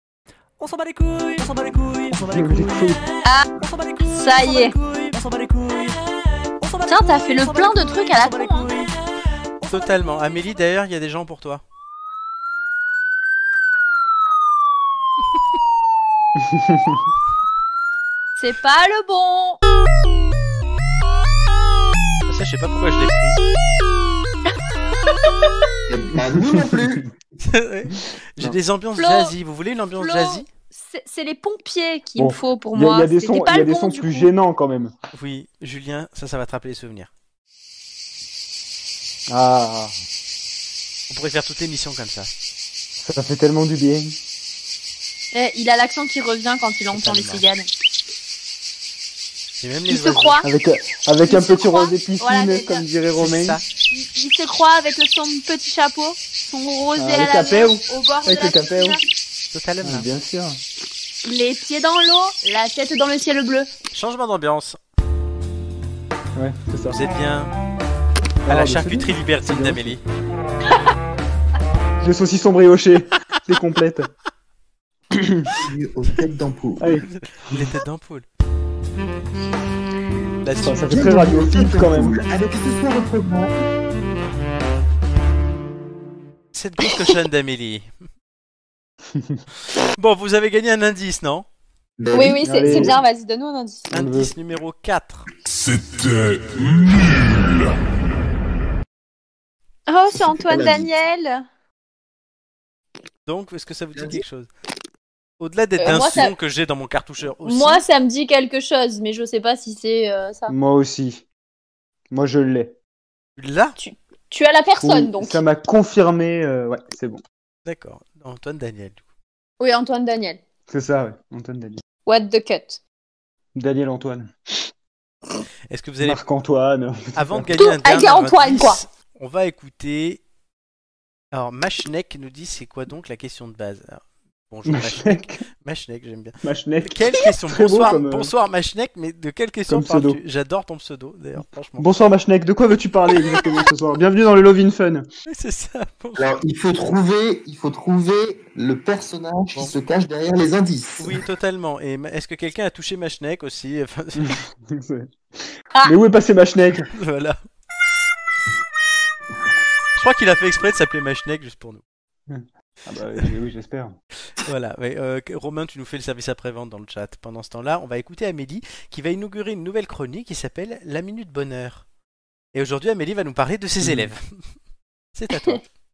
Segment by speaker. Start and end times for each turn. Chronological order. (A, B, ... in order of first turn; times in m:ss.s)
0:00.6-0:09.0 A
0:02.1-0:03.0 B
0:04.1-0:04.7 C
0:06.9-0:08.7 C
0:09.6-0:10.2 A
0:09.7-0:11.6 D
0:16.4-0:17.0 B
0:18.4-0:19.6 C
0:22.3-0:23.4 D
0:25.9-0:27.1 E
0:27.4-0:30.5 D
0:29.0-0:29.3 C
0:30.0-0:34.3 C
0:32.2-0:34.9 B
0:35.1-0:37.1 D
0:39.3-0:39.9 B
0:41.1-0:42.3 D
0:43.0-0:44.2 B
0:45.3-0:47.7 C
0:46.9-0:47.4 D
0:49.6-0:50.4 D
0:49.9-0:50.5 C
0:50.4-0:53.6 B
0:51.2-0:52.8 C
0:53.2-0:53.6 D
0:53.9-0:59.0 C
0:57.0-0:59.0 B
0:59.5-1:00.1 D
0:59.8-1:00.6 B
1:01.2-1:03.7 C
1:03.9-1:04.8 D
1:06.4-1:07.0 B
1:06.9-1:07.5 D
1:08.4-1:10.0 B
1:08.5-1:10.0 D
1:12.0-1:14.1 B
1:15.1-1:15.5 B
1:15.6-1:17.0 E
1:16.8-1:17.6 B
1:17.2-1:18.2 D
1:20.4-1:21.0 D
1:20.6-1:22.1 B
1:20.9-1:23.5 E
1:26.5-1:27.9 D
1:29.1-1:29.4 B
1:30.0-1:31.4 D
1:32.0-1:33.0 E
1:32.1-1:33.9 C
1:32.4-1:32.9 B
1:33.9-1:35.3 D
1:33.9-1:34.3 B
1:36.0-1:36.8 D
1:39.9-1:41.4 C
1:40.1-1:40.9 E
1:43.2-1:44.5 D
1:44.0-1:44.2 E
1:45.4-1:47.8 D
1:45.8-1:46.3 C
1:47.4-1:50.5 C
1:50.5-1:51.2 B
1:52.1-1:52.7 B
1:53.4-1:53.8 D
1:53.8-1:55.4 C
1:54.8-1:57.2 B
1:57.6-1:59.0 D
1:59.6-2:00.4 C
2:00.7-2:01.8 B
2:02.0-2:02.8 C
2:03.5-2:04.3 B
2:05.7-2:06.2 D
2:06.0-2:07.5 B
2:07.1-2:10.2 D
2:07.6-2:08.8 C
2:11.3-2:21.9 D
2:14.6-2:15.4 B
2:16.4-2:18.3 B
2:19.7-2:20.2 B
2:21.8-2:25.1 B
2:25.3-2:26.4 D
2:26.2-2:31.2 E
2:31.0-2:34.4 D
2:34.2-2:35.1 B
2:35.8-2:36.9 B
2:36.9-2:37.4 D
2:40.0-2:41.8 D
2:42.3-2:44.0 B
2:44.4-2:51.8 D
2:52.5-2:54.2 D
2:53.8-2:54.1 B
2:55.1-2:55.6 D